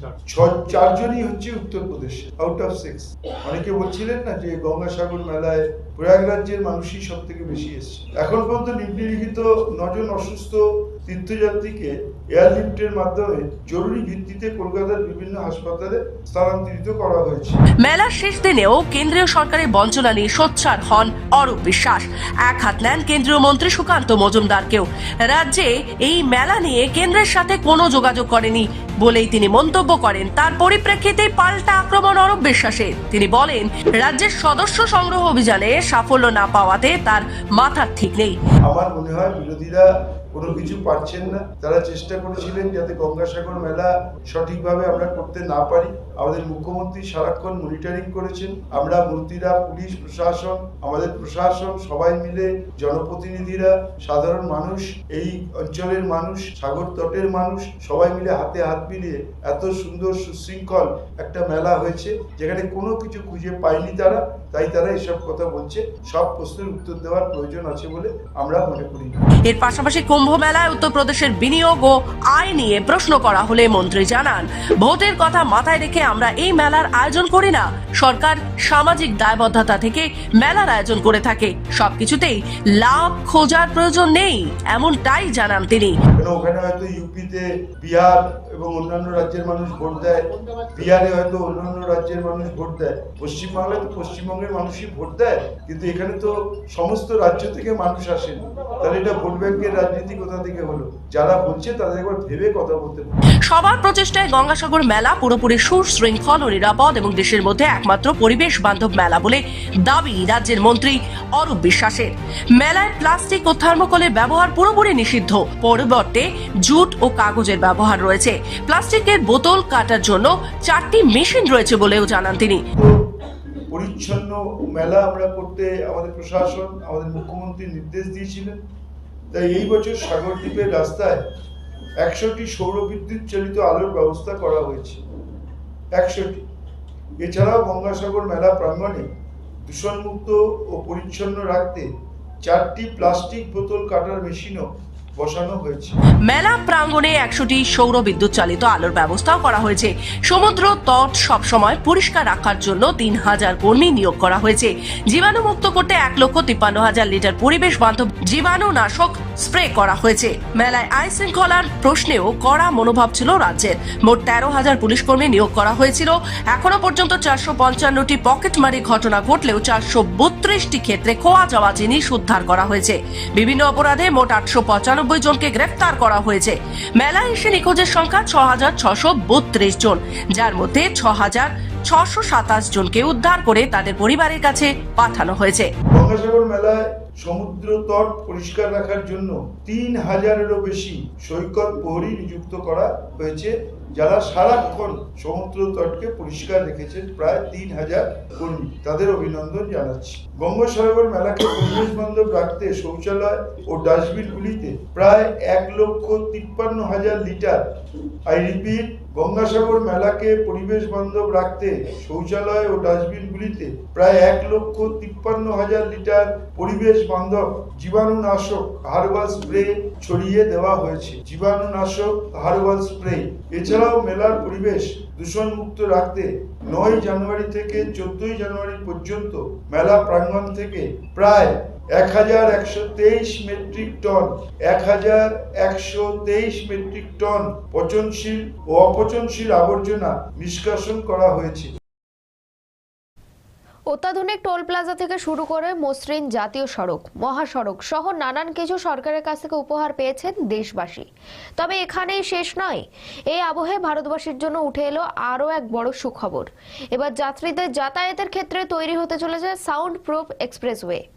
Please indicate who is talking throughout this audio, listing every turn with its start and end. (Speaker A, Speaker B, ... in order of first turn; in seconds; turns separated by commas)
Speaker A: 0.3-17.6, Speaker B: 17.8-38.4, Speaker A: 38.7-69.2, Speaker B: 69.5-86.0, Speaker A: 86.2-103.2, Speaker B: 103.5-122.6, Speaker A: 123.7-128.6, Speaker A: 129.3-131.2, Speaker A: 132.0-135.0, Speaker A: 135.9-136.4, Speaker A: 137.2-139.1, Speaker A: 139.7-141.9, Speaker A: 142.4-146.0, Speaker B: 146.3-185.7, Speaker A: 185.9-207.7, Speaker A: 208.3-241.7, Speaker C: 243.9-261.0